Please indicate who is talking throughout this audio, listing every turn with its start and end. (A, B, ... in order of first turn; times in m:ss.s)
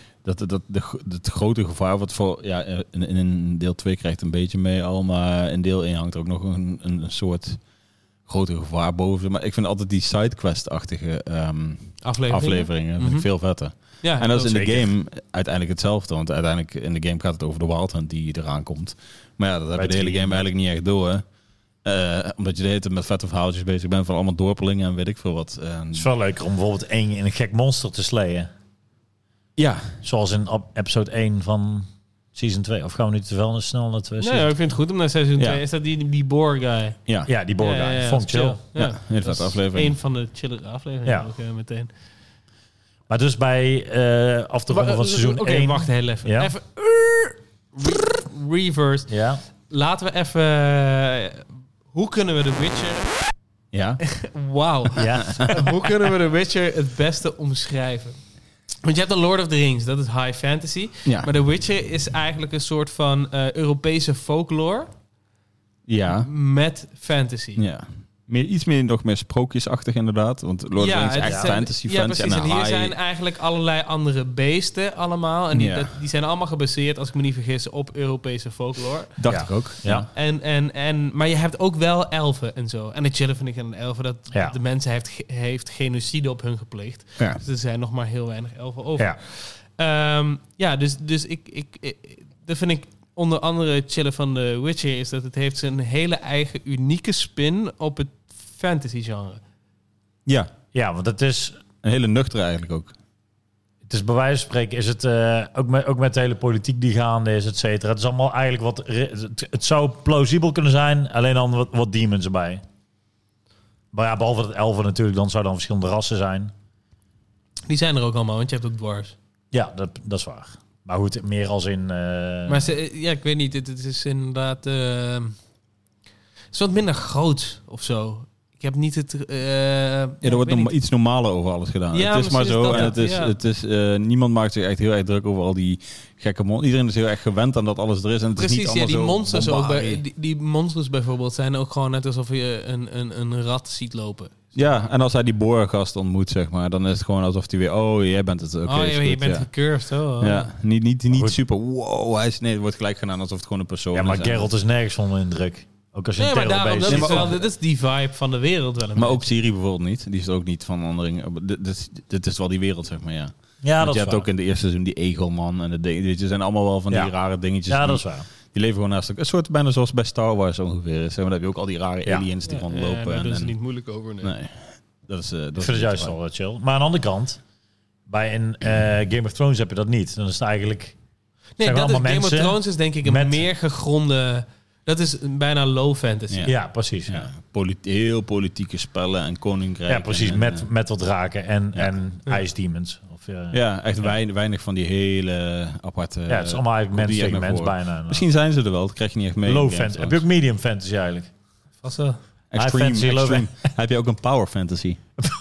0:00.2-0:07.6 A
0:08.2-0:21.2 A
0:12.0-0:13.3 B
0:14.0-0:14.8 B
0:19.7-0:20.4 C
0:21.8-0:26.1 A
0:25.9-0:28.5 C
0:29.6-0:30.0 A
0:30.0-0:34.5 C
0:34.2-0:37.0 B
0:37.2-0:38.6 C
0:37.6-0:41.9 B
0:38.8-0:39.9 A
0:43.1-0:46.5 C
0:44.7-0:49.1 B
0:49.1-0:49.4 C
0:49.7-0:53.2 B
0:53.7-0:54.0 A
0:54.0-0:58.2 B
0:55.0-0:55.4 C
0:55.2-0:55.6 A
0:58.8-1:04.9 B
1:05.9-1:06.3 A
1:06.2-1:07.6 B
1:07.6-1:13.0 A
1:10.8-1:19.2 B
1:11.2-1:11.6 C
1:15.5-1:15.9 A
1:19.2-1:20.1 A
1:19.2-1:20.1 C
1:20.0-1:39.4 B
1:40.7-1:41.6 C
1:41.8-1:42.9 A
1:43.8-1:52.6 C
1:53.9-1:56.5 C
1:57.7-1:59.1 B
1:59.5-2:02.6 C
2:02.5-2:05.4 B
2:06.5-2:10.7 B
2:10.2-2:20.0 A
2:11.9-2:13.3 B
2:18.4-2:24.8 B
2:24.5-2:29.5 A
2:28.6-2:30.5 B
2:30.2-2:34.5 A
2:31.1-2:31.4 C
2:33.9-2:37.3 C
2:36.2-2:39.3 B
2:36.8-2:37.4 A
2:39.0-2:53.5 A
2:43.6-2:44.3 C
2:47.7-2:48.2 C
2:52.4-2:54.3 B
2:54.2-2:56.1 A
2:55.6-2:57.4 C
2:58.1-3:01.0 C
3:01.6-3:06.5 B
3:01.6-3:03.4 C
3:06.4-3:07.3 C
3:07.1-3:10.6 A
3:09.9-3:14.1 C
3:13.5-3:20.2 A
3:16.3-3:18.2 C
3:19.4-3:21.3 C
3:21.8-3:22.2 B
3:22.5-3:25.0 A
3:22.6-3:23.5 C